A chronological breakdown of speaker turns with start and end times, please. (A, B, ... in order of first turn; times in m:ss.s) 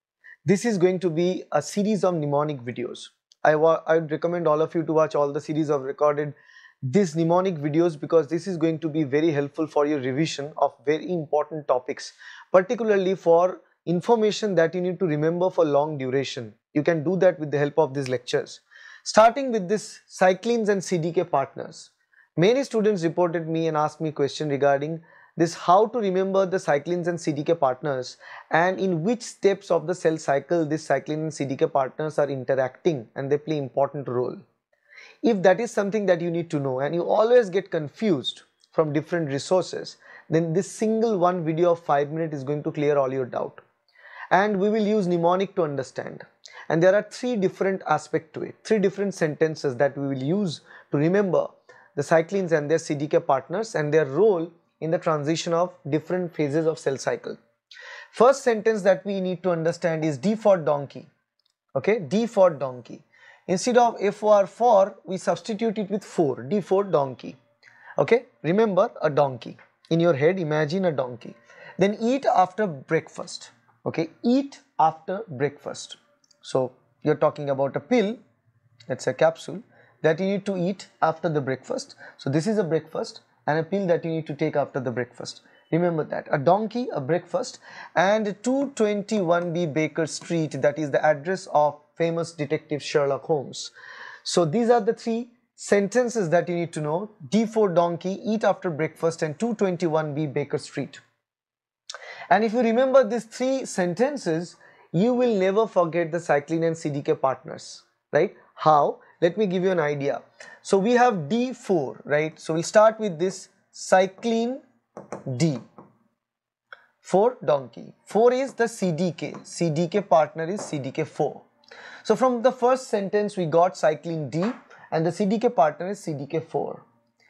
0:00.4-0:34.4 A
0:35.2-0:43.6 A
0:44.3-0:57.4 A
0:58.1-1:01.1 A
1:01.7-1:07.4 A
1:08.0-1:18.2 A
1:18.9-1:33.7 A
1:34.2-1:41.0 A
1:42.3-1:54.6 A
1:55.3-1:55.6 A
1:57.0-2:01.4 A
2:02.0-2:06.8 A